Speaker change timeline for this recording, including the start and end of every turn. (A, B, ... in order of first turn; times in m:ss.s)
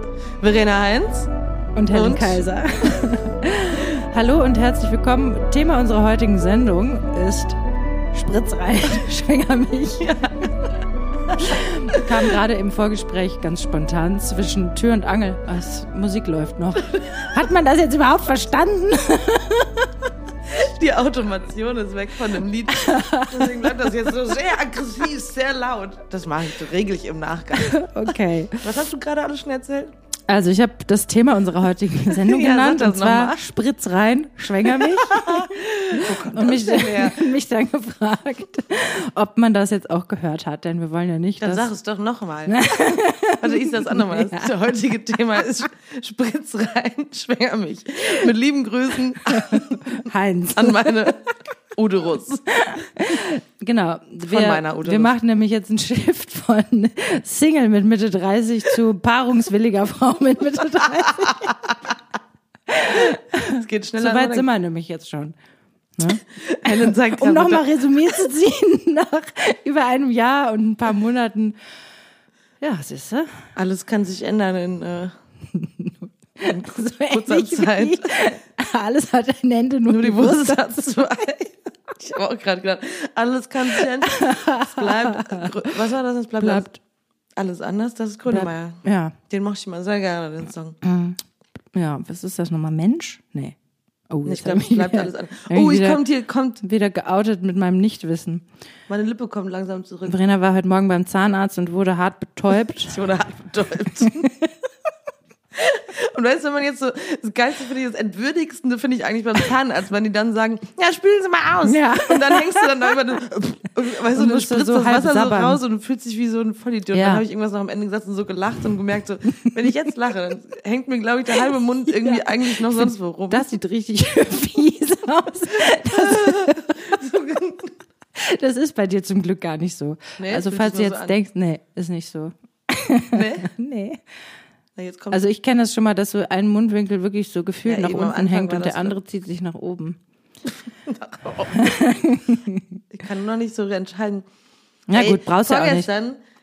0:00.4-0:01.3 A
0:01.7-0:07.6 B
0:01.9-0:03.1 A
0:08.1-0:10.1 B
0:10.0-0:10.5 A
0:11.3-0:12.0 A
0:11.4-0:20.1 B
0:16.9-0:17.2 A
0:20.5-0:29.9 A
0:22.7-0:24.3 B
0:27.5-0:28.6 B
0:30.3-0:41.7 B
0:32.1-0:33.4 A
0:34.7-0:37.3 A
0:41.4-0:42.7 A
0:42.5-0:44.6 B
0:43.3-0:51.2 A
0:49.2-0:51.2 B
0:51.7-0:52.5 A
0:52.5-1:01.6 B
0:54.2-0:55.1 A
1:01.2-1:01.7 A
1:02.7-1:05.3 B
1:03.4-1:04.5 A
1:06.0-1:11.6 B
1:06.1-1:08.2 A
1:12.6-1:13.5 B
1:13.5-1:15.1 A
1:15.5-1:21.2 B
1:16.4-1:18.4 A
1:19.9-1:26.7 A
1:23.7-1:25.8 B
1:26.4-1:26.8 B
1:27.4-1:30.8 A
1:28.3-1:29.2 B
1:30.8-1:31.2 B
1:31.7-1:33.6 B
1:34.1-1:36.0 B
1:34.2-1:36.6 A
1:36.6-1:38.4 B
1:38.9-1:40.2 A
1:40.1-1:43.0 B
1:42.8-1:44.3 A
1:44.0-1:44.5 B
1:45.5-2:03.4 A
1:51.6-1:52.7 B
1:54.1-1:55.6 B
1:56.9-1:57.2 B
2:01.5-2:07.0 B
2:05.8-2:07.7 A
2:08.1-2:14.0 B
2:10.2-2:11.2 A
2:13.1-2:13.5 A
2:14.8-2:15.2 A
2:15.1-2:20.0 B
2:17.6-2:19.0 A
2:20.8-2:21.8 A
2:21.5-2:22.8 B
2:22.9-2:24.2 A
2:24.9-2:25.9 B
2:24.9-2:26.2 A